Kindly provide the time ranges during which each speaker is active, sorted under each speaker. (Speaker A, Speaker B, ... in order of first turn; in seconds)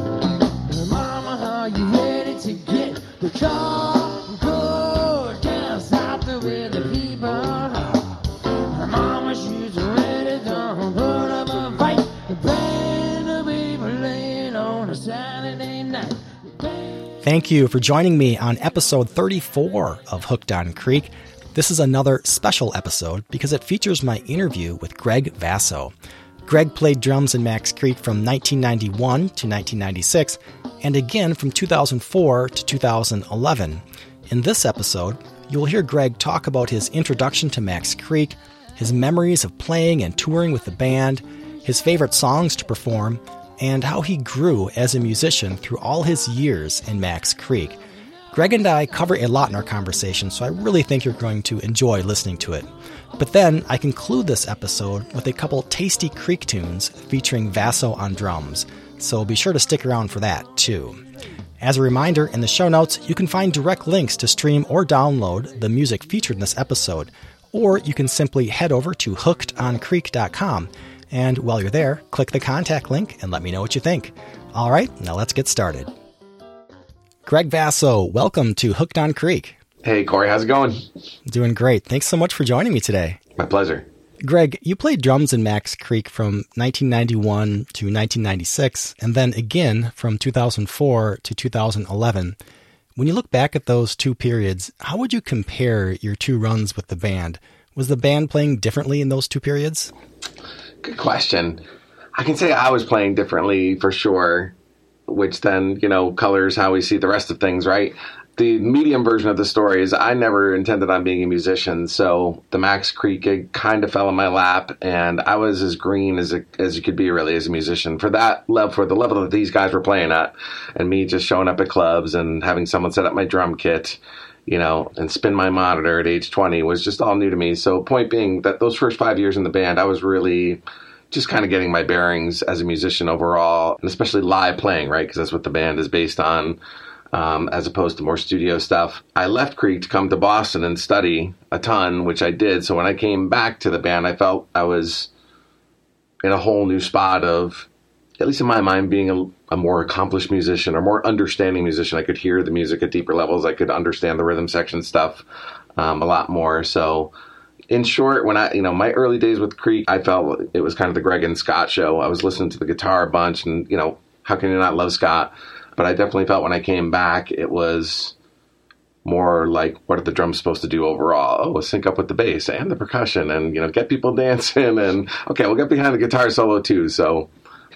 Speaker A: 0.7-8.1, 8.7-16.4
Speaker B: 17.2-25.9, 26.4-47.8, 48.3-52.6, 53.2-61.0, 61.6-75.9, 77.2-79.6, 81.2-83.2, 84.2-92.4, 93.0-99.9
Speaker C: 79.8-80.8, 83.4-83.8, 100.8-101.6, 102.1-104.5, 105.1-136.6, 137.1-145.1, 146.2-147.7, 148.2-155.2, 155.8-157.1, 157.7-168.1, 169.0-177.3